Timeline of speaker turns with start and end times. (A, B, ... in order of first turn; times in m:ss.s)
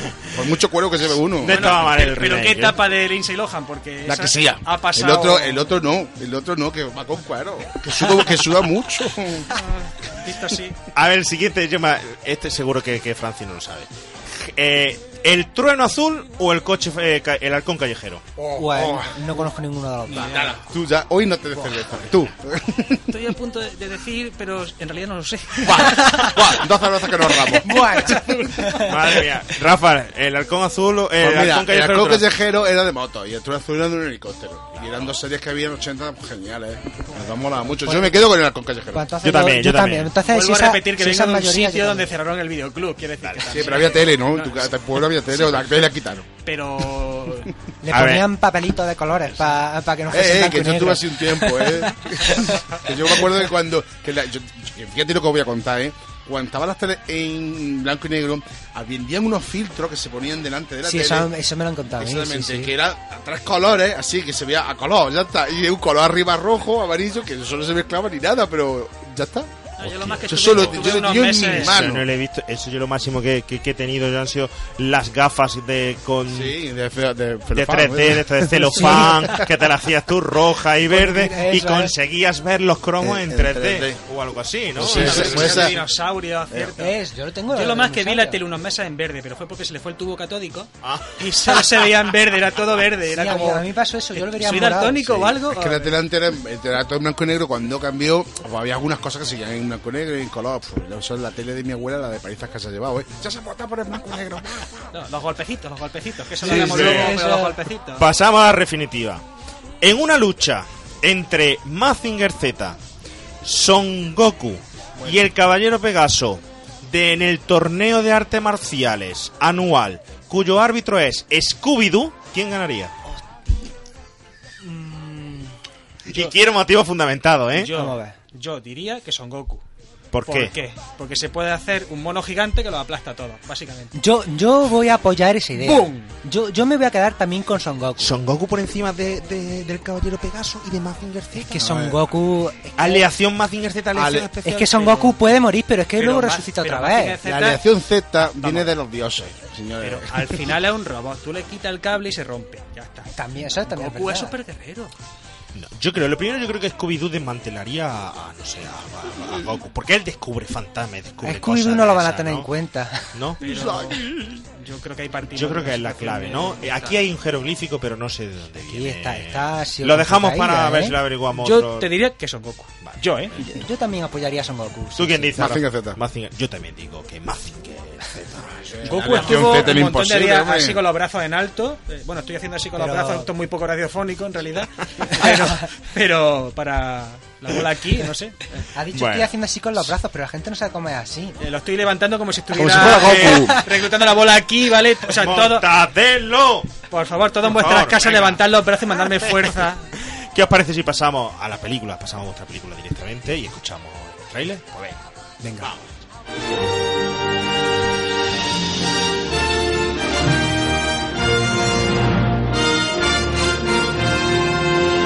0:00.3-0:01.8 A
0:01.4-0:05.7 B
0:01.4-0:02.8 C
0:04.1-0:09.6 A
0:09.6-0:10.8 B
0:11.0-0:18.3 C
0:18.4-0:19.1 A
0:18.6-0:20.4 D
0:20.1-0:20.6 B
0:20.3-0:23.0 A
0:23.1-0:26.5 B
0:25.6-0:28.2 A
0:27.3-0:28.8 B
0:27.6-0:28.9 D
0:28.8-0:32.3 C
0:31.2-0:39.1 A
0:34.8-0:35.1 C
0:37.9-0:38.2 D
0:38.9-0:42.1 D
0:39.2-0:40.1 C
0:40.3-0:44.7 B
0:43.2-0:43.9 C
0:43.4-0:46.3 A
0:46.4-0:47.5 B
0:47.8-0:51.7 D
0:47.9-0:48.3 C
0:50.1-1:01.3 A
1:00.8-1:02.7 D
1:02.0-1:12.1 A
1:09.8-1:11.8 B
1:09.8-1:16.6 C
1:16.3-1:19.2 A
1:17.6-1:25.8 C
1:18.7-1:19.3 D
1:20.9-1:21.9 D
1:23.0-1:24.0 A
1:24.8-1:25.8 A
1:24.8-1:27.0 B
1:26.8-1:28.4 D
1:27.5-1:36.0 B
1:30.8-1:31.6 C
1:33.1-1:35.1 D
1:35.1-1:44.8 A
1:44.9-1:48.1 B
1:46.4-1:47.1 A
1:46.4-1:47.2 C
1:46.9-1:47.5 D
1:48.0-1:49.2 C
1:49.8-1:52.8 C
1:53.4-2:02.9 C
1:55.0-1:55.2 B
2:04.6-2:05.5 D
2:06.1-2:07.7 C
2:07.5-2:09.6 B
2:07.7-2:08.1 D
2:10.1-2:10.5 C
2:10.3-2:13.9 B
2:14.0-2:18.1 D
2:15.6-2:16.1 B
2:18.0-2:21.8 C
2:21.4-2:23.0 D
2:21.6-2:22.0 A
2:22.8-2:25.2 C
2:24.0-2:24.3 A
2:24.4-2:27.2 D
2:26.0-2:27.6 B
2:27.2-2:30.6 A
2:28.2-2:28.7 B
2:29.8-2:34.9 B
2:33.2-2:34.3 D
2:35.5-2:42.5 C
2:41.2-2:43.1 D
2:43.1-2:43.4 C
2:43.4-2:44.0 B
2:43.4-2:44.0 A
2:44.6-2:47.0 B
2:45.3-2:51.9 C
2:48.7-2:51.0 D
2:51.3-2:53.3 B
2:52.8-2:53.6 C
2:53.5-2:55.4 D
2:55.0-2:59.8 C
2:55.4-2:56.0 A
2:58.7-3:00.8 A
2:58.9-3:08.6 B
3:02.8-3:03.3 D
3:05.2-3:05.6 D
3:08.8-3:11.4 D
3:08.9-3:09.9 C
3:11.4-3:15.7 B
3:12.5-3:13.6 A
3:12.6-3:13.6 C
3:15.1-3:16.8 C
3:16.9-3:19.8 B
3:17.4-3:18.4 C
3:19.2-3:25.9 C
3:25.4-3:25.7 D